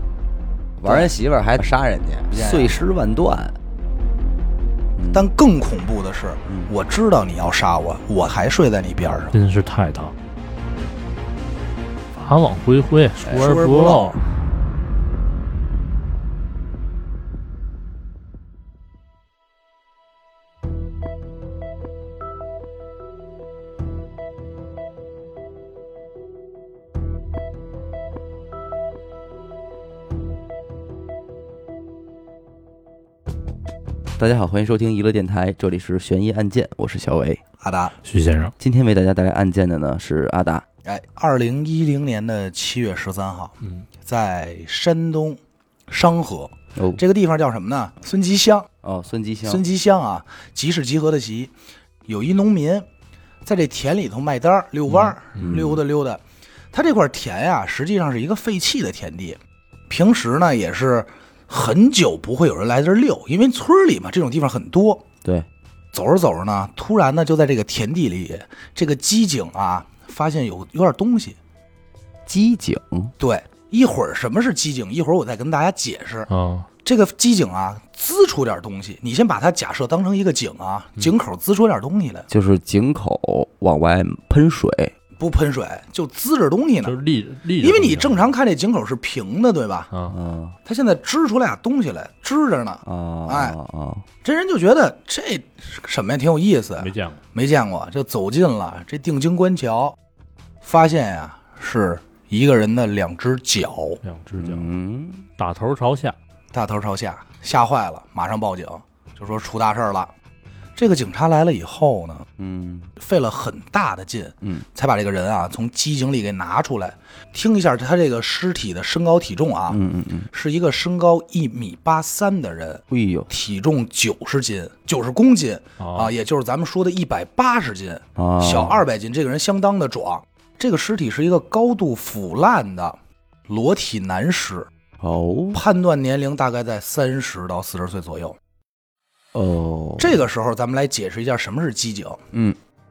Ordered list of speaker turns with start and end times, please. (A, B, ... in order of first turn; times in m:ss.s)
0:00.8-0:03.6 A
0:00.8-0:01.1 B
0:02.3-0:02.8 B
0:05.0-0:05.3 A
0:05.1-0:09.4 B
0:06.5-0:06.7 A
0:09.3-0:10.1 C
0:12.2-0:14.2 C
0:13.2-0:14.2 A
0:13.3-0:14.2 B
0:34.2-0:37.4 A
0:37.6-0:37.9 B
0:38.0-0:38.5 C
0:38.6-0:40.6 A
0:40.8-0:48.7 B
0:46.7-0:47.0 A
0:48.8-0:49.6 A
0:49.4-0:51.5 B
0:52.1-0:52.9 B
0:53.4-0:56.2 B
0:55.3-0:55.6 C
0:55.3-0:55.8 A
0:56.7-0:59.4 B
0:59.9-1:05.0 B
1:05.9-1:11.4 B
1:12.2-1:13.1 A
1:13.2-1:16.3 B
1:16.3-1:16.7 C
1:16.8-1:22.3 B
1:22.3-1:24.9 A
1:25.2-1:27.0 B
1:26.8-1:28.3 C
1:27.6-1:29.9 B
1:29.9-1:30.2 C
1:30.1-1:30.6 A
1:30.6-1:33.6 B
1:32.8-1:34.0 A
1:34.2-1:40.0 B
1:36.8-1:37.2 C
1:40.6-1:44.0 B
1:44.0-1:44.7 C
1:44.4-1:45.2 A
1:45.4-1:46.2 C
1:46.5-1:50.1 B
1:50.8-1:52.2 B
1:52.4-1:52.9 A
1:53.0-1:59.8 B
1:59.7-2:00.3 A
2:00.3-2:13.0 B
2:02.9-2:03.3 A
2:05.8-2:06.1 C
2:08.2-2:08.8 A
2:13.5-2:14.7 B
2:15.0-2:15.6 A
2:15.5-2:18.4 B
2:19.3-2:20.2 A
2:20.0-2:22.2 B